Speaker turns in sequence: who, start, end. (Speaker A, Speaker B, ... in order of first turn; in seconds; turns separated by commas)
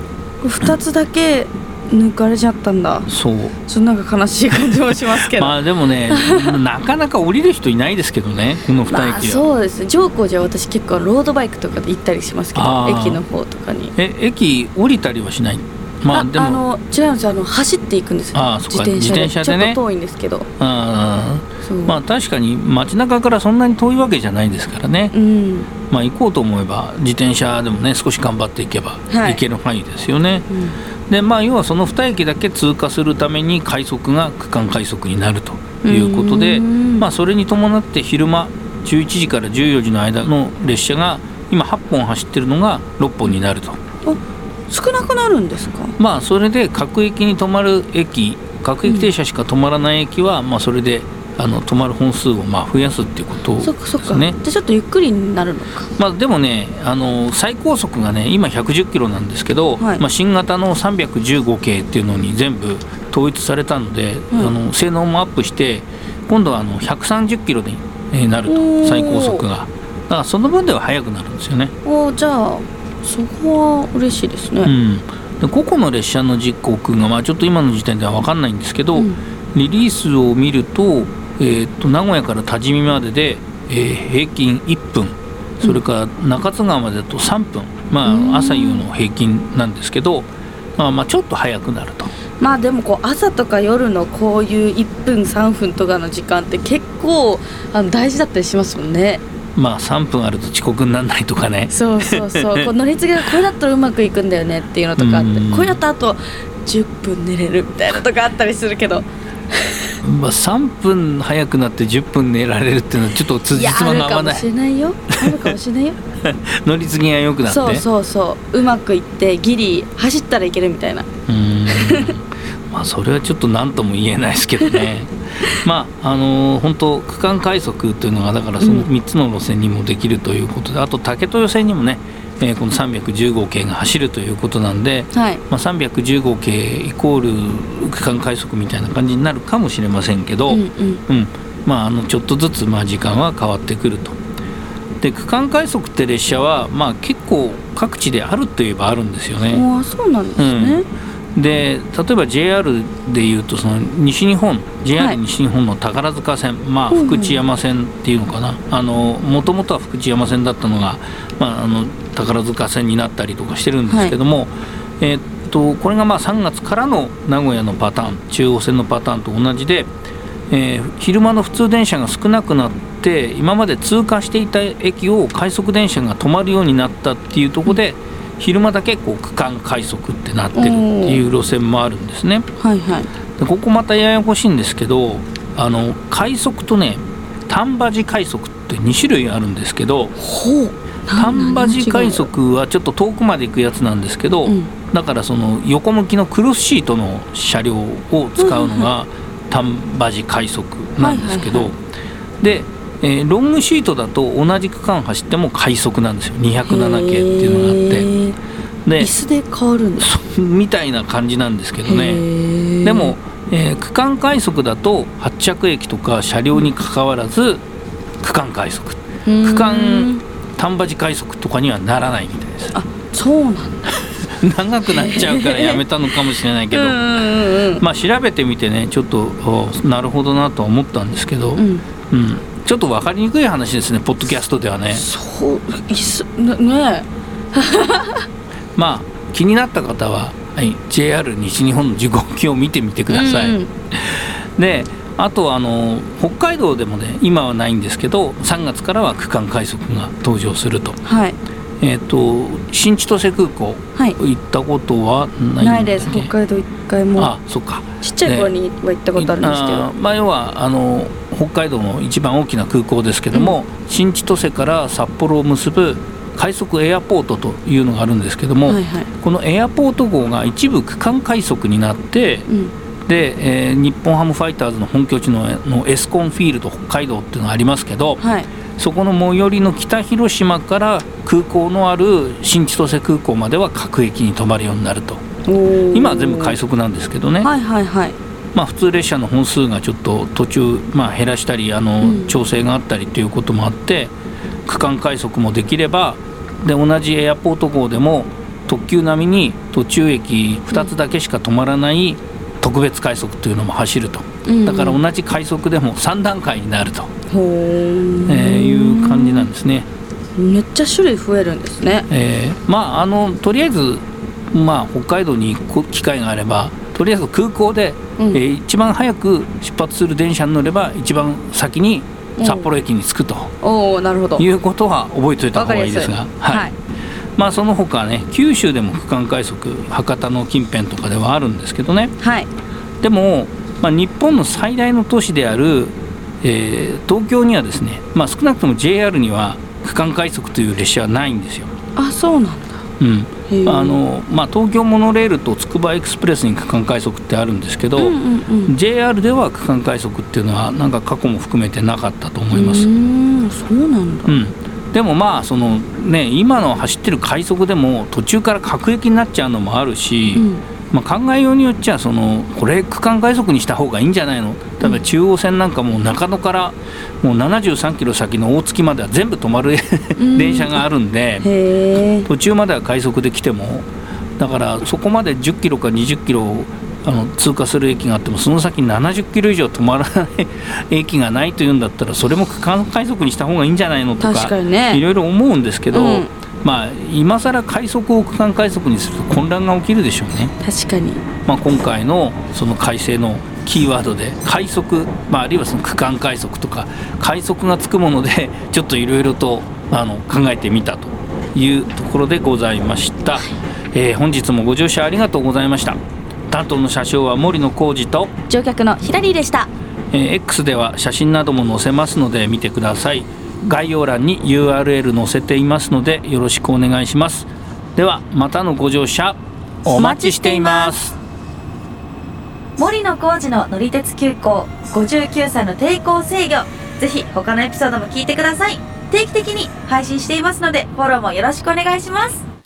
Speaker A: 0.4-3.1, Speaker B: 3.1-3.5, Speaker A: 3.6-6.6, Speaker B: 4.6-9.4, Speaker A: 8.9-13.9, Speaker B: 12.6-13.2, Speaker B: 14.0-16.6, Speaker A: 16.1-20.5, Speaker B: 18.3-19.8, Speaker B: 20.6-25.1, Speaker A: 21.6-22.0, Speaker A: 25.1-25.7, Speaker B: 25.9-30.5, Speaker A: 29.1-29.4, Speaker A: 30.5-30.8, Speaker B: 31.1-43.8, Speaker A: 35.8-37.1, Speaker A: 44.0-46.0, Speaker B: 46.0-54.4, Speaker A: 48.9-49.1, Speaker A: 53.6-55.9, Speaker B: 56.0-71.7, Speaker A: 68.5-69.5, Speaker A: 71.8-74.7, Speaker B: 74.6-92.1, Speaker A: 79.0-79.2, Speaker A: 88.0-88.9, Speaker A: 92.4-99.2, Speaker B: 99.6-102.7, Speaker A: 101.7-110.0, Speaker B: 105.0-105.8, Speaker B: 110.0-114.5, Speaker A: 113.5-116.0, Speaker B: 115.2-115.5, Speaker B: 116.2-117.9, Speaker A: 117.5-121.1, Speaker B: 121.3-144.2, Speaker A: 121.7-122.1, Speaker A: 128.6-128.9, Speaker A: 135.1-135.4, Speaker A: 140.5-141.0, Speaker B: 145.0-149.6, Speaker A: 149.5-150.9, Speaker B: 150.4-150.8, Speaker B: 151.3-169.9, Speaker A: 156.9-157.4, Speaker A: 163.9-164.2, Speaker B: 170.5-182.5, Speaker A: 180.5-181.3, Speaker A: 182.6-183.1, Speaker B: 183.4-190.2, Speaker A: 190.2-192.3, Speaker B: 191.1-201.8, Speaker A: 194.5-194.7, Speaker A: 198.4-198.9, Speaker A: 201.0-201.7, Speaker B: 202.4-208.1, Speaker A: 206.7-208.4, Speaker B: 208.8-209.1, Speaker A: 209.0-210.1, Speaker B: 210.0-212.3, Speaker A: 211.8-213.2, Speaker B: 212.8-217.6, Speaker B: 218.2-222.8, Speaker A: 219.2-220.2, Speaker A: 222.7-224.0, Speaker B: 224.2-235.1, Speaker A: 224.9-226.1, Speaker A: 226.7-227.8, Speaker A: 231.6-231.9, Speaker A: 234.9-238.3, Speaker B: 238.8-251.0, Speaker A: 243.1-243.7, Speaker A: 251.0-251.4, Speaker B: 251.8-256.3, Speaker A: 255.6-257.3, Speaker B: 257.2-258.5, Speaker A: 258.0-259.9, Speaker B: 259.2-272.5, Speaker A: 263.3-263.6, Speaker A: 268.7-269.1, Speaker A: 272.5-272.7, Speaker B: 273.1-278.2, Speaker A: 278.2-278.5, Speaker B: 278.8-285.2, Speaker A: 285.5-286.6, Speaker B: 285.9-287.5, Speaker A: 287.4-288.2, Speaker B: 288.5-294.1, Speaker A: 292.0-292.4, Speaker B: 294.7-307.1, Speaker A: 304.4-305.0, Speaker A: 307.3-309.5, Speaker B: 308.3-309.9, Speaker A: 310.4-312.1, Speaker B: 312.1-323.5, Speaker A: 322.4-322.7, Speaker A: 323.6-324.5, Speaker B: 324.4-326.7, Speaker A: 325.5-326.8, Speaker B: 327.4-332.1, Speaker A: 332.2-332.5, Speaker B: 333.0-341.7, Speaker A: 342.0-342.8, Speaker B: 343.0-352.9, Speaker A: 343.5-344.0, Speaker A: 348.0-348.7, Speaker A: 352.5-354.4, Speaker B: 354.3-371.5, Speaker A: 360.3-360.6, Speaker A: 370.2-370.8, Speaker A: 371.4-372.3, Speaker B: 372.3-390.5, Speaker A: 384.2-385.0, Speaker A: 385.9-386.3, Speaker A: 390.6-391.2, Speaker B: 391.5-406.0, Speaker B: 406.5-408.3, Speaker A: 408.5-409.7, Speaker B: 410.1-421.2, Speaker A: 419.9-420.9, Speaker A: 422.8-432.4